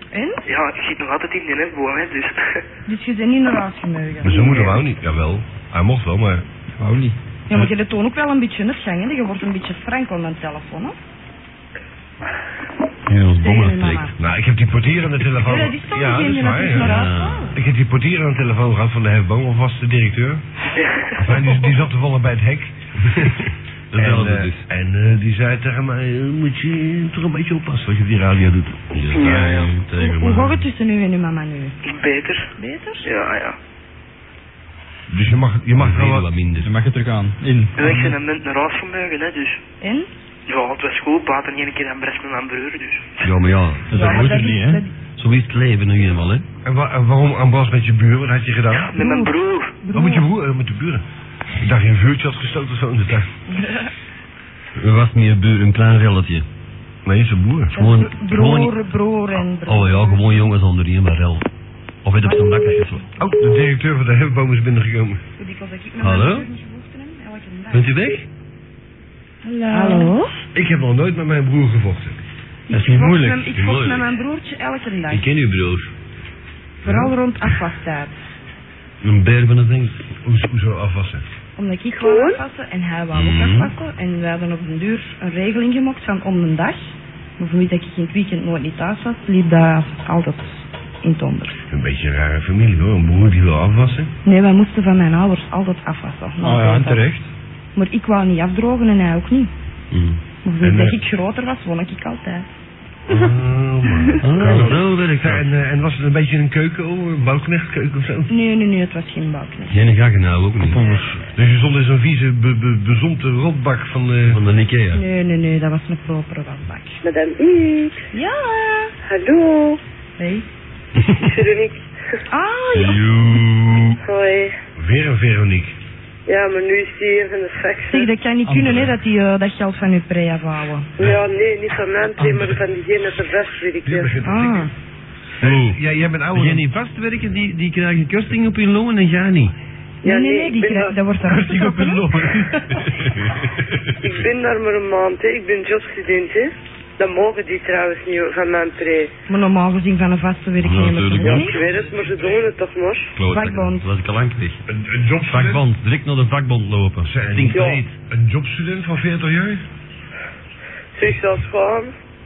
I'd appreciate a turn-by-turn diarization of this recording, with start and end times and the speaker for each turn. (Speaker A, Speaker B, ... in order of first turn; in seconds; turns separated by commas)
Speaker A: 0.1-0.4, Speaker B: 0.5-2.6, Speaker A: 2.9-4.6, Speaker C: 4.2-6.4, Speaker D: 6.8-7.2, Speaker A: 7.5-10.9, Speaker E: 13.1-14.1, Speaker A: 13.4-14.1, Speaker C: 14.2-20.4, Speaker A: 15.4-17.5, Speaker E: 16.7-17.5, Speaker B: 20.8-21.1, Speaker C: 21.1-22.7, Speaker E: 23.1-24.6, Speaker C: 23.9-28.9, Speaker E: 28.9-30.7, Speaker B: 29.1-29.7, Speaker A: 30.0-31.7, Speaker B: 31.9-32.5, Speaker A: 32.6-33.1, Speaker B: 33.0-33.5, Speaker C: 35.1-36.3, Speaker E: 35.7-36.7, Speaker D: 36.6-38.2, Speaker B: 37.8-39.6, Speaker A: 39.8-40.1, Speaker B: 40.5-43.3, Speaker E: 43.2-44.5, Speaker D: 43.9-44.8, Speaker A: 43.9-44.9, Speaker E: 45.1-46.4, Speaker C: 46.6-48.9, Speaker B: 48.7-49.7, Speaker A: 49.0-50.2, Speaker C: 49.9-51.0, Speaker C: 51.6-53.3, Speaker E: 54.8-56.5, Speaker C: 57.0-57.7, Speaker A: 57.7-60.5, Speaker E: 57.7-58.8, Speaker E: 59.6-61.5, Speaker E: 62.0-63.1, Speaker A: 62.2-62.8, Speaker C: 63.2-65.2, Speaker A: 65.4-67.9, Speaker E: 66.0-66.5, Speaker E: 67.7-68.2, Speaker A: 69.4-70.3, Speaker C: 70.5-72.2, Speaker A: 72.7-75.3, Speaker D: 72.7-73.5, Speaker E: 73.5-74.1, Speaker E: 75.1-75.9, Speaker A: 76.8-78.1, Speaker C: 76.8-77.1, Speaker E: 79.0-80.0, Speaker C: 80.2-81.2, Speaker A: 81.5-91.6, Speaker F: 82.0-82.4, Speaker E: 83.1-83.7, Speaker C: 91.7-94.1, Speaker A: 94.2-97.1, Speaker D: 96.4-97.3, Speaker A: 97.7-99.5, Speaker E: 99.9-100.2, Speaker A: 100.4-102.5, Speaker C: 100.6-101.0, Speaker C: 103.1-108.3, Speaker E: 104.2-105.5, Speaker A: 108.3-109.8, Speaker E: 109.7-110.9, Speaker C: 110.7-114.4, Speaker E: 114.3-115.0, Speaker A: 114.9-117.0, Speaker F: 117.0-118.0, Speaker A: 118.1-118.9, Speaker F: 119.0-119.8, Speaker A: 120.2-120.4, Speaker E: 121.0-121.3, Speaker F: 121.2-121.8, Speaker A: 122.3-123.0, Speaker E: 122.7-124.0, Speaker F: 124.0-124.5, Speaker C: 124.8-125.7, Speaker F: 126.2-128.1, Speaker A: 127.9-130.9, Speaker D: 128.5-128.9, Speaker F: 131.0-134.1, Speaker C: 133.8-134.7, Speaker A: 134.2-134.7, Speaker C: 135.4-136.7, Speaker E: 135.4-135.8, Speaker E: 136.3-139.5, Speaker F: 140.0-141.0, Speaker A: 140.0-142.0, Speaker D: 141.5-142.6, Speaker E: 142.9-143.4, Speaker F: 144.0-149.1, Speaker A: 149.3-151.5, Speaker E: 150.6-152.4, Speaker F: 151.2-153.1, Speaker E: 153.2-154.6, Speaker A: 153.3-153.9, Speaker C: 154.7-155.6, Speaker E: 155.3-157.9, Speaker C: 157.0-159.6, Speaker F: 157.5-157.8, Speaker F: 160.9-161.9